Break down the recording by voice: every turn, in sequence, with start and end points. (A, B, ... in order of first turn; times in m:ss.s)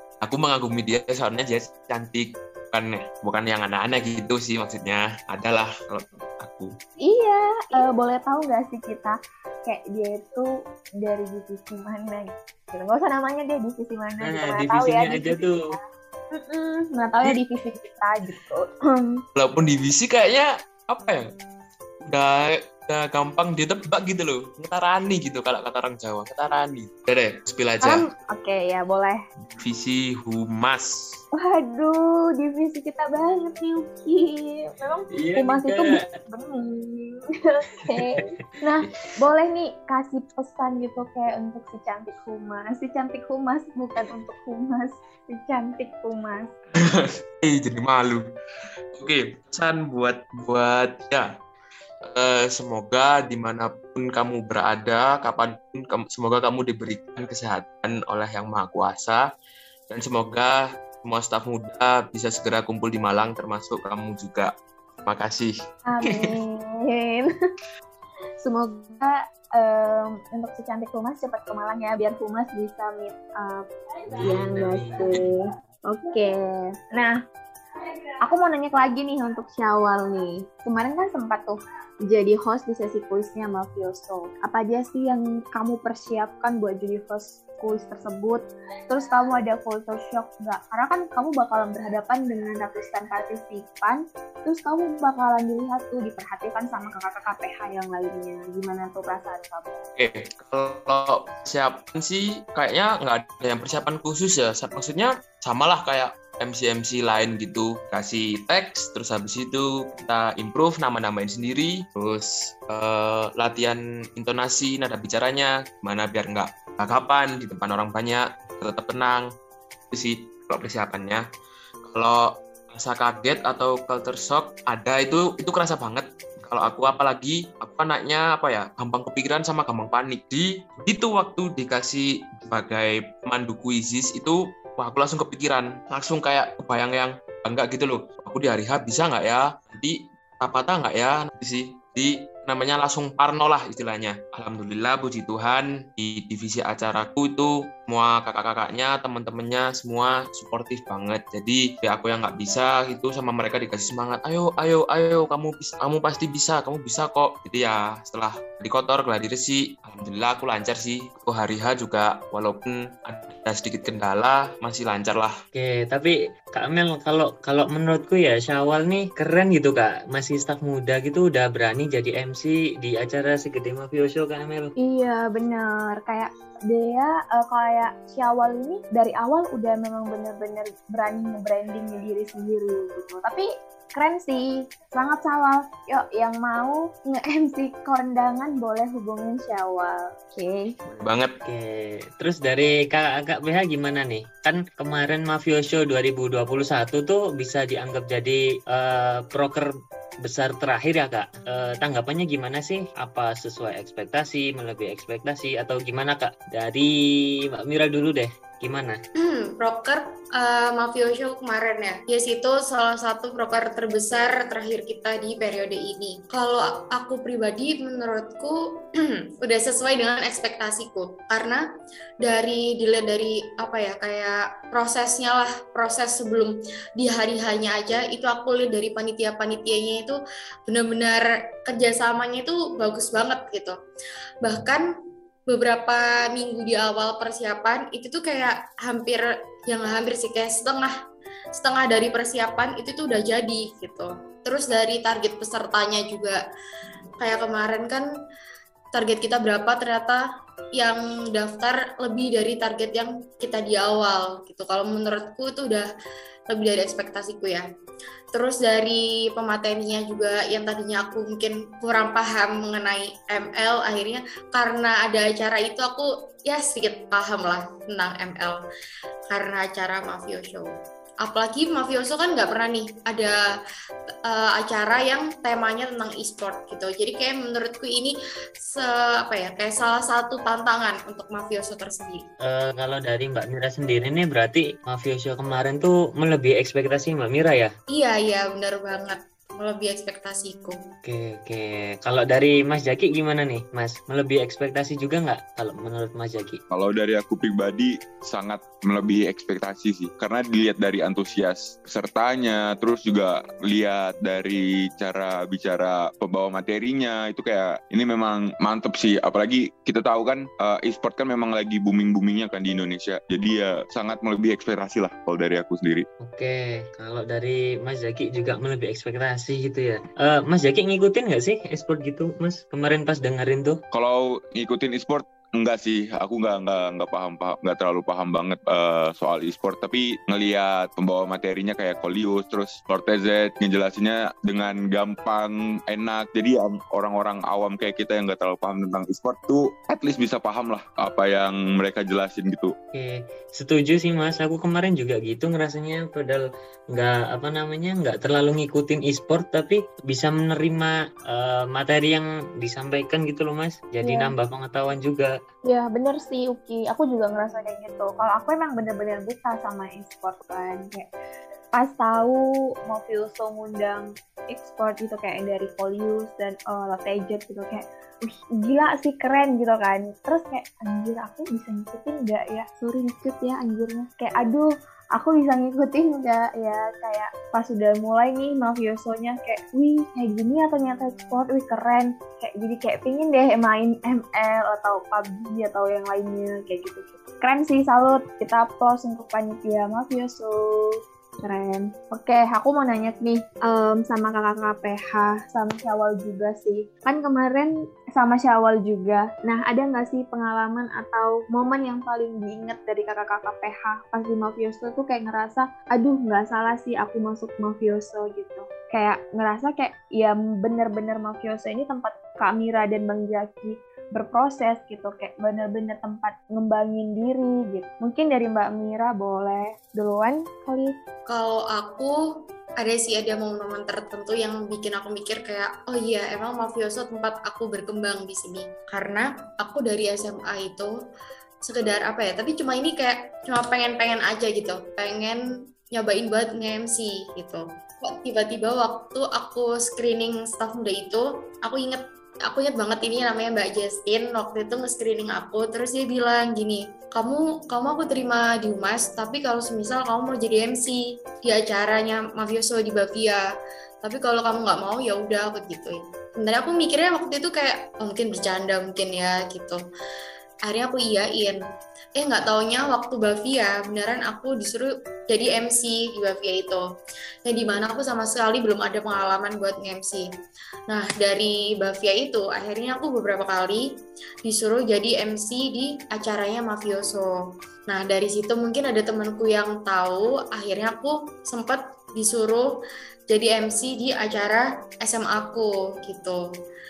0:00.2-0:06.7 A
0:07.0-0:15.8 B
0:14.2-0:15.8 C
0:16.3-0:19.2 B
0:19.4-0:21.2 A
0:22.0-0:28.0 A
0:27.8-0:29.2 B
0:29.5-0:30.9 A
0:31.3-0:46.5 B
0:35.1-0:36.1 C
0:37.8-0:38.4 C
0:46.7-0:48.2 A
0:48.9-0:51.3 A
0:52.1-0:59.2 A
0:59.9-1:04.5 A
1:05.0-1:05.5 A
1:05.8-1:07.3 B
1:08.4-1:17.2 B
1:14.1-1:15.2 C
1:18.2-1:39.8 B
1:40.0-1:59.3 A
1:59.9-2:01.2 A
2:01.8-2:45.3 A
2:45.5-2:54.7 C
2:54.8-3:10.7 B
3:10.9-3:11.4 A
3:11.4-3:19.7 C
3:20.2-3:26.9 C
3:27.6-3:29.0 C
3:29.2-3:41.6 D
3:42.2-3:53.8 D
3:54.4-3:54.8 D
3:55.5-4:00.9 D
4:01.5-4:06.4 D
4:07.2-4:08.1 D
4:08.9-4:10.2 D
4:10.7-4:15.9 D
4:16.5-4:17.6 D
4:18.3-4:28.6 D
4:29.3-4:30.7 D
4:31.2-4:33.4 D
4:34.3-4:42.2 D
4:42.4-4:47.7 C
4:47.9-4:50.8 D
4:51.0-4:56.6 C
4:56.7-5:16.0 E
5:16.2-5:23.8 C
5:23.9-5:42.7 E
5:42.9-5:55.3 C
5:54.0-5:54.3 B
5:55.6-6:01.1 B
6:01.7-7:01.0 B
7:01.3-7:02.1 D
7:02.8-7:10.9 D
7:11.6-7:15.4 D
7:15.9-7:33.4 D
7:34.0-7:39.8 D
7:40.6-7:41.6 D
7:42.2-7:46.8 D
7:47.4-7:50.2 D
7:50.9-7:53.9 D
7:54.4-7:57.3 D
7:57.9-8:02.7 D
8:03.3-8:06.4 D